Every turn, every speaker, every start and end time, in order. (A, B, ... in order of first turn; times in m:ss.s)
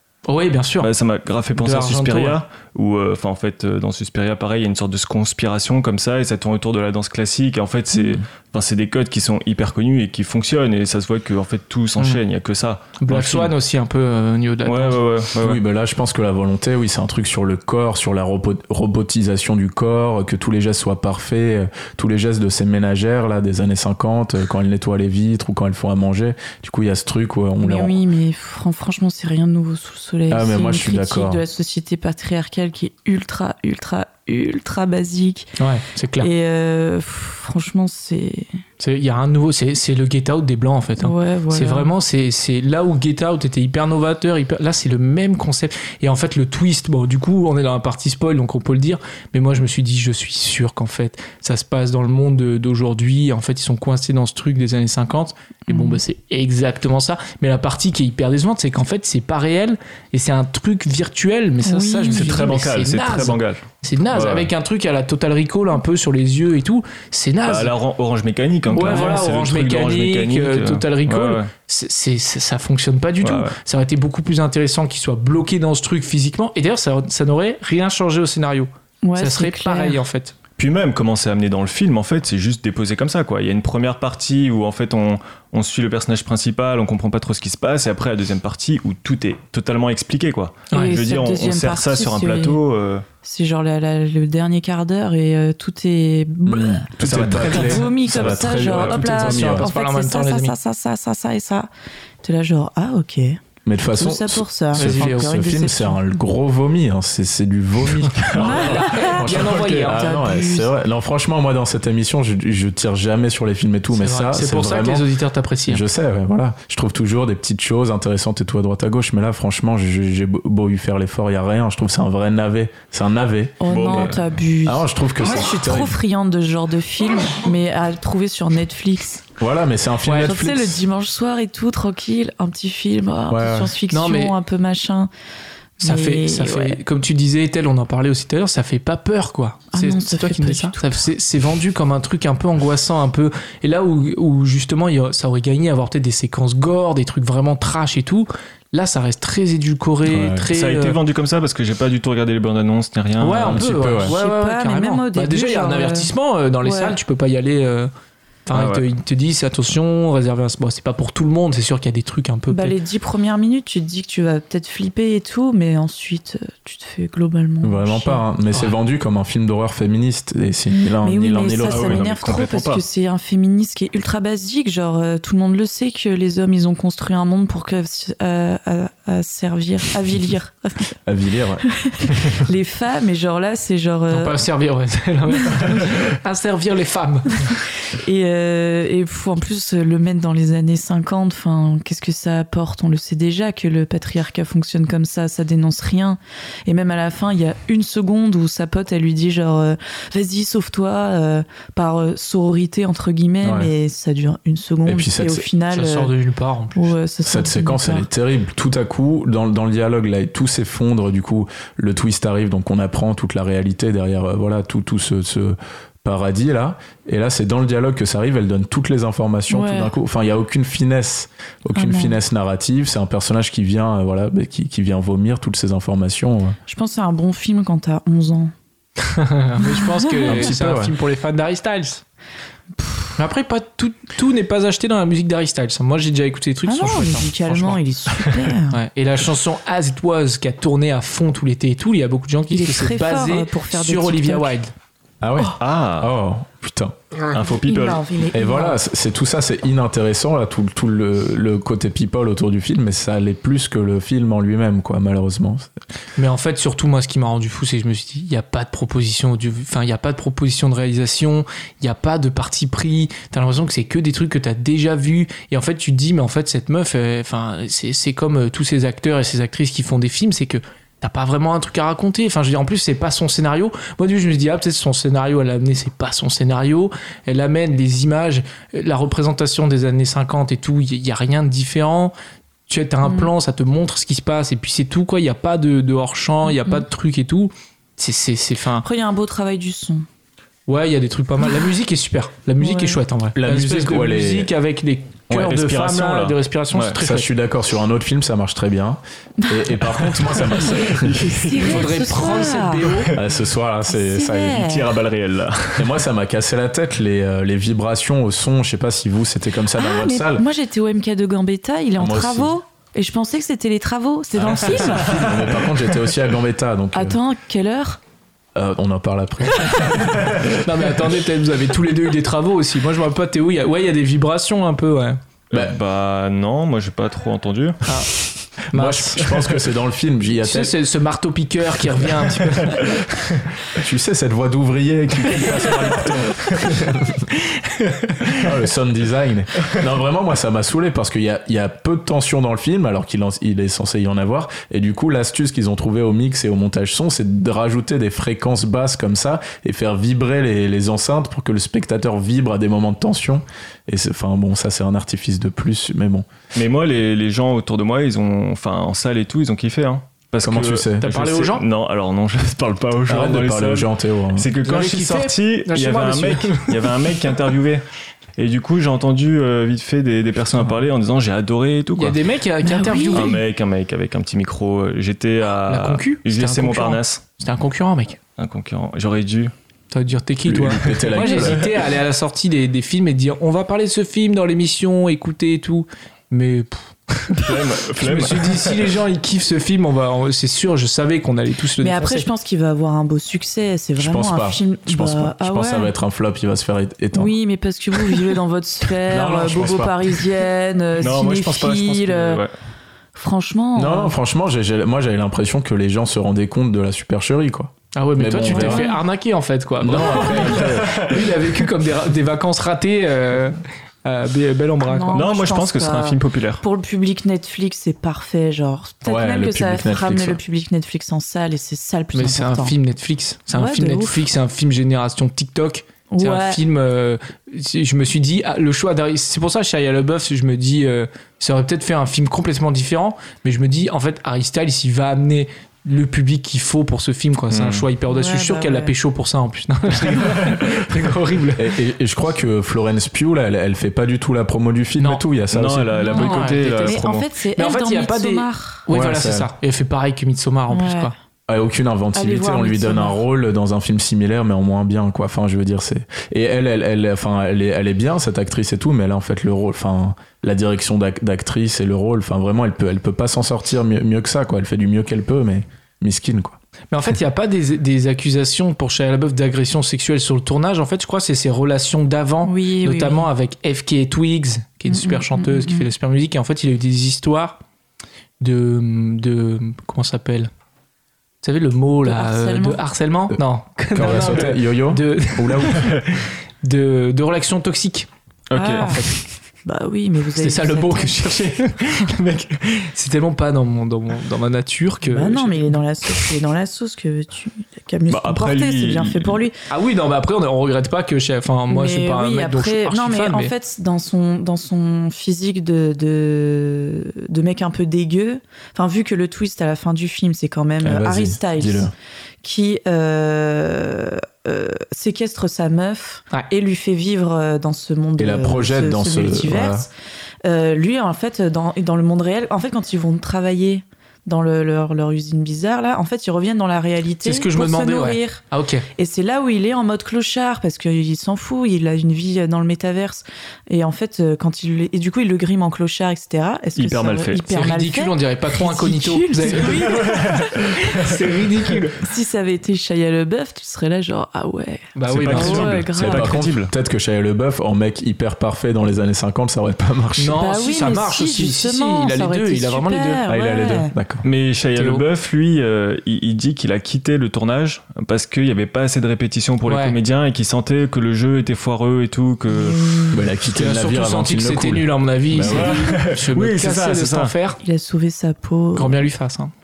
0:00.3-0:00.9 A
0:00.8-0:13.5 B
0:01.6-0:02.4 A
0:13.0-0:15.0 A
0:14.6-0:15.6 B
0:15.4-0:28.0 C
0:27.6-0:35.6 D
0:30.3-0:31.4 C
0:35.6-0:36.3 A
0:36.2-0:38.5 D
0:38.8-1:07.7 A
0:41.0-0:41.9 D
0:55.7-0:56.0 D
1:01.6-1:02.5 D
1:02.1-1:04.4 B
1:07.5-1:11.5 B
1:08.7-1:20.4 A
1:13.2-1:13.6 B
1:19.0-1:20.0 D
1:20.6-1:33.0 B
1:30.7-1:31.0 A
1:30.7-1:32.6 D
1:33.2-1:41.7 D
1:36.4-1:39.7 C
1:37.0-1:39.0 B
1:38.9-1:40.6 A
1:42.2-1:46.2 D
1:43.6-1:55.1 C
1:44.8-1:45.4 A
1:48.3-1:49.0 B
1:48.4-1:50.7 D
1:48.4-1:50.2 A
1:53.9-1:55.8 A
1:55.7-2:06.0 C
2:03.6-2:09.3 D
2:03.7-2:04.3 B
2:09.4-2:10.8 C
2:10.0-2:10.3 A
2:10.2-2:15.1 D
2:13.3-2:13.7 C
2:13.9-2:14.4 A
2:15.8-2:16.8 D
2:15.8-2:31.0 A
2:19.7-2:20.9 D
2:30.1-2:30.5 C
2:30.5-2:33.7 B
2:33.2-2:37.9 A
2:33.4-2:34.2 C
2:34.0-2:36.1 D
2:36.6-2:37.0 D
2:38.5-2:42.8 A
2:38.5-2:38.8 B
2:42.5-2:48.2 D
2:47.6-2:52.1 C
2:51.0-3:00.9 D
2:51.6-2:52.8 B
3:01.1-3:01.7 C
3:01.7-3:04.4 D
3:04.1-3:07.5 A
3:05.4-3:06.1 D
3:07.3-3:26.1 D
3:23.4-3:23.7 C
3:24.9-3:25.5 C
3:25.7-3:27.0 A
3:26.8-3:28.1 D
3:27.2-3:46.6 C
3:39.5-3:39.9 D
3:41.8-3:42.2 D
3:46.7-3:48.5 D
3:49.1-3:52.0 A
3:49.6-3:50.5 D
3:50.3-3:50.9 C
3:52.8-3:53.1 D
3:53.2-3:57.8 A
3:56.7-3:58.8 D
3:58.7-4:04.7 A
4:02.5-4:04.6 D
4:05.2-4:07.0 C
4:05.6-4:06.1 B
4:07.3-4:08.0 B
4:07.4-4:08.8 D
4:08.3-4:15.7 C
4:16.2-4:42.1 A
4:42.7-4:48.9 A
4:43.0-4:43.3 D
4:46.4-4:46.8 D
4:48.8-4:50.1 D
4:50.7-4:57.3 A
4:52.6-4:53.0 D
4:53.3-4:54.5 C
4:55.3-4:55.6 C
4:55.4-4:57.0 B
4:57.0-5:01.3 C
4:59.4-4:59.7 D
5:00.3-5:02.3 B
5:01.2-5:02.9 D
5:01.6-5:03.1 A
5:02.8-5:03.2 B
5:03.1-5:04.8 C
5:03.9-5:04.9 D
5:04.6-5:06.0 B
5:05.8-5:10.5 C
5:09.8-5:15.3 D
5:12.0-5:12.5 C
5:14.4-5:15.8 B
5:14.5-5:17.2 C
5:16.9-5:18.0 D
5:18.6-5:20.6 C
5:20.6-5:25.2 A
5:25.5-5:27.8 B
5:27.8-5:28.1 A
5:28.7-5:29.3 A
5:28.7-5:30.8 C
5:30.4-5:32.9 A
5:33.8-5:37.3 C
5:38.4-5:56.3 C
5:56.6-6:07.8 B
6:00.4-6:01.2 C
6:01.0-6:01.6 A
6:03.1-6:04.5 C
6:04.6-6:06.8 A
6:08.4-6:12.2 B
6:12.0-6:13.4 A
6:12.6-6:13.4 D
6:13.1-6:17.2 B
6:15.7-6:18.2 A
6:18.4-6:19.5 B
6:19.9-6:32.3 A
6:20.5-6:21.6 C
6:20.8-6:21.6 B
6:27.4-6:28.9 B
6:31.8-6:35.9 D
6:34.0-6:37.4 C
6:37.1-6:42.4 D
6:39.1-6:40.2 C
6:41.0-6:42.5 B
6:43.2-6:44.2 D
6:43.8-6:48.9 C
6:48.0-6:55.3 A
6:48.5-6:49.0 D
6:49.8-6:51.2 C
6:50.5-6:51.0 B
6:54.8-7:02.8 D
6:55.1-6:56.6 B
6:59.0-7:00.4 C
7:02.1-7:21.7 A
7:03.5-7:04.3 D
7:06.1-7:06.6 D
7:17.5-7:17.9 B
7:18.1-7:18.9 D
7:21.6-7:26.3 C
7:25.5-7:27.3 B
7:26.0-7:28.9 D
7:26.1-7:27.0 A
7:27.6-7:31.1 A
7:28.9-7:29.5 C
7:30.7-7:31.1 D
7:31.5-7:46.6 C
7:32.2-7:33.2 D
7:46.9-7:57.6 A
7:52.4-7:53.3 D
7:54.9-7:55.9 D
7:58.4-8:00.5 A
8:01.4-8:08.1 A
8:02.0-8:02.8 D
8:03.9-8:05.9 C
8:08.5-8:09.0 B
8:08.6-8:09.1 D
8:08.8-8:09.2 A
8:09.6-8:11.3 D
8:10.4-8:15.7 A
8:15.0-8:19.6 D
8:18.1-8:19.4 B
8:19.7-8:23.5 A
8:21.7-8:31.9 D
8:30.8-8:31.9 C
8:32.4-8:39.9 D
8:38.2-8:39.9 C
8:40.4-8:48.4 D
8:47.2-8:48.9 A
8:49.0-9:00.8 D
8:56.8-8:57.5 B
8:57.5-9:02.0 A
8:59.7-9:00.5 B
9:02.0-9:06.4 D
9:05.0-9:05.8 A
9:05.1-9:06.7 B
9:06.0-9:10.4 C
9:10.2-9:13.2 A
9:10.4-9:13.9 D
9:13.3-9:14.2 C
9:14.2-9:23.1 B
9:14.8-9:15.0 A
9:19.6-9:20.0 A
9:22.5-9:23.2 D
9:23.1-9:25.9 C
9:23.4-9:27.6 A
9:25.4-9:27.3 B
9:27.6-9:29.1 D
9:28.8-9:29.5 A